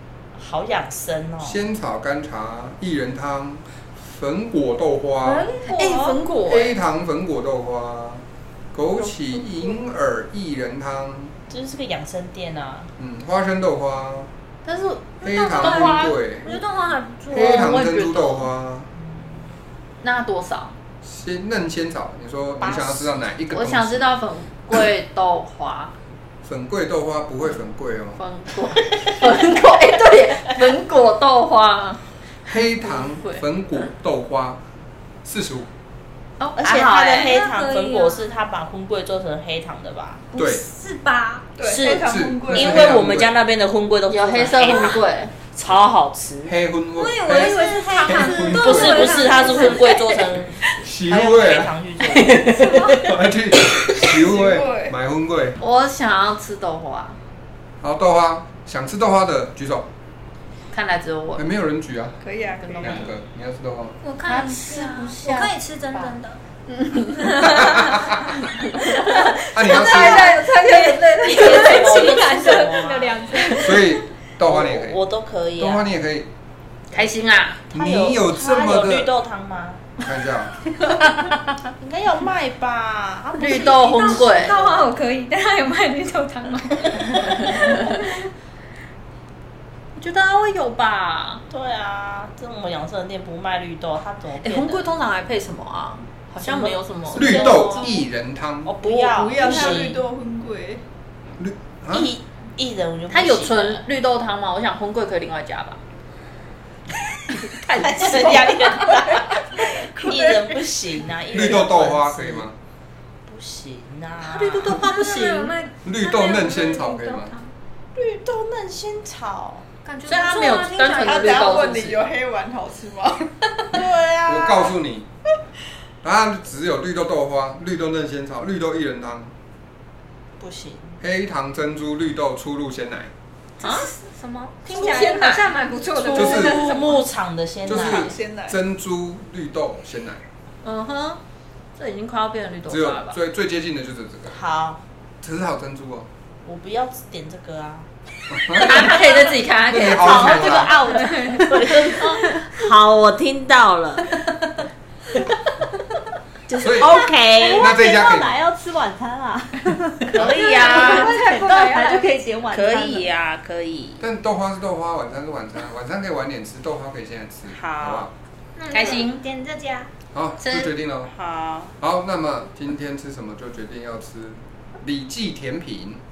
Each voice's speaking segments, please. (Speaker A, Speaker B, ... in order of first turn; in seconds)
Speaker A: 0.3-1.6, 5.5-6.1, 11.5-12.9, 19.0-19.3, 22.6-23.1, 36.6-40.2, 41.6-46.5, 48.2-53.0, 64.3-65.5, 71.2-73.5, 74.4-75.9, 77.7-79.8, 81.7-84.7, 91.5-94.9, 96.4-98.0, 98.7-100.0, 101.9-103.8, 107.5-112.5, 113.3-114.8, 118.0-119.7, 123.7-124.8, 130.4-131.0, 136.0-138.1, 144.3-144.8, 146.4-147.9, 148.5-149.0, 150.0-154.1, 156.5-157.7, 160.1-161.2, 162.5-164.0, 167.5-168.1, 171.1-171.7
Speaker B: 1.4-5.5, 6.5-11.3, 13.0-14.3, 15.2-16.6, 17.3-18.9, 21.0-24.2, 26.4-28.2, 32.5-34.6, 35.2-35.7, 40.4-40.6, 42.0-43.3, 46.5-49.4, 50.8-51.8, 53.0-55.6, 57.8-59.9, 61.4-62.2, 62.8-64.0, 67.4-68.2, 69.5-70.4, 73.6-75.0, 75.6-76.3, 77.7-79.1, 80.0-80.5, 97.1-98.7, 101.4-102.1, 111.3-112.6, 115.8-117.3, 124.2-125.1, 126.0-129.3, 131.0-133.1, 136.2-136.7, 137.7-140.2, 142.7-144.4, 145.2-146.1, 148.3-148.9, 149.7-150.8, 156.6-157.0, 157.6-158.4, 164.0-168.1, 170.1-171.1, 171.8-176.0
Speaker C: 5.7-6.7, 14.7-16.1, 17.5-18.4, 20.0-20.7, 23.5-25.9, 28.2-32.0, 32.8-33.4, 36.4-37.3, 44.1-45.3, 48.9-49.3, 55.6-57.2, 60.7-61.4, 62.7-63.0, 66.9-67.7, 76.9-77.6, 83.4-84.8, 90.0-91.4, 94.5-97.6, 103.1-105.8, 114.7-115.5, 119.9-121.9, 134.7-135.5, 140.6-141.2, 141.8-143.2, 148.8-151.5, 160.3-161.1, 168.7-169.2, 170.4-170.7
Speaker D: 9.0-9.5, 41.6-43.0, 54.1-54.9, 62.2-63.0, 69.9-71.8, 98.8-100.8, 121.0-123.4, 134.7-135.2, 137.7-138.6
Speaker E: 16.3-17.5, 37.3-38.3, 40.3-41.5, 47.0-50.1, 52.5-53.0, 64.0-66.4, 67.1-68.1, 68.8-74.0, 83.6-88.3, 114.2-117.5, 119.9-121.6, 133.6-137.0, 160.4-162.3, 168.6-169.9
Speaker F: 28.3-28.8, 29.5-30.5, 44.1-45.3, 83.4-84.6, 94.5-95.1, 96.0-96.9, 103.2-103.7, 115.1-115.5, 120.1-122.0, 148.7-149.7, 157.6-159.6, 160.8-163.0, 168.7-169.0